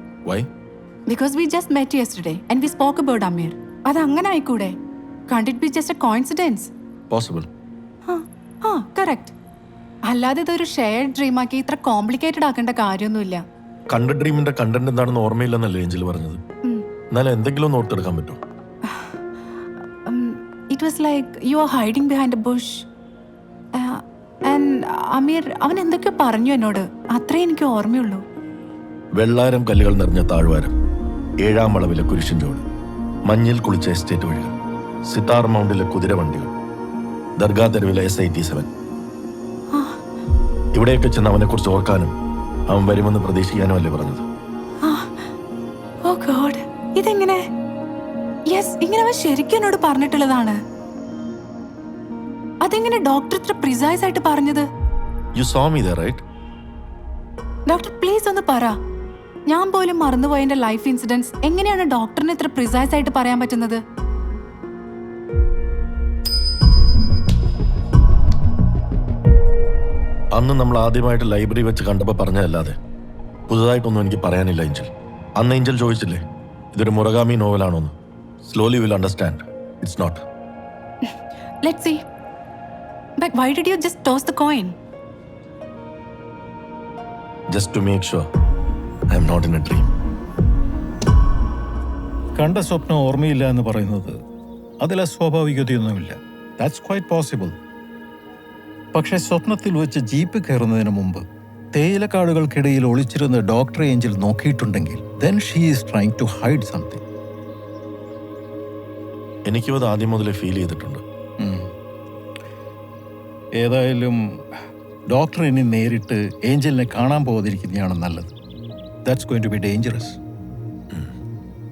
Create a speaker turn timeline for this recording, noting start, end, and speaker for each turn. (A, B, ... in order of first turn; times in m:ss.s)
0:01.1-0:04.7 A
0:05.3-0:06.7 A
0:07.1-0:07.5 B
0:08.0-0:09.3 A
0:10.1-0:13.4 A
0:13.9-0:16.4 B
0:17.1-0:18.4 B
0:20.1-0:22.8 A
0:23.8-0:28.2 A
0:29.1-0:30.7 B
0:31.4-0:32.6 B
0:33.3-0:34.5 B
0:35.1-0:36.5 B
0:37.4-0:38.7 B
0:39.7-0:40.0 A
0:40.7-0:42.1 B
0:42.7-0:44.2 B
0:44.8-0:45.1 A
0:46.1-0:47.4 A
0:48.5-0:50.6 A
0:52.6-0:54.7 A
0:55.4-0:56.2 B
0:57.7-0:58.7 A
0:59.5-1:03.8 A
1:10.3-1:12.8 B
1:13.5-1:17.9 B
1:18.4-1:20.2 B
1:21.6-1:22.0 A
1:23.2-1:24.7 A
1:27.5-1:28.2 B
1:29.1-1:29.9 B
1:32.4-1:34.2 C
1:34.8-1:37.6 C
1:38.9-1:47.0 C
1:49.4-1:51.0 B
1:51.4-1:51.7 C
1:53.6-1:54.2 C
1:55.1-1:58.3 C
1:59.0-2:00.2 C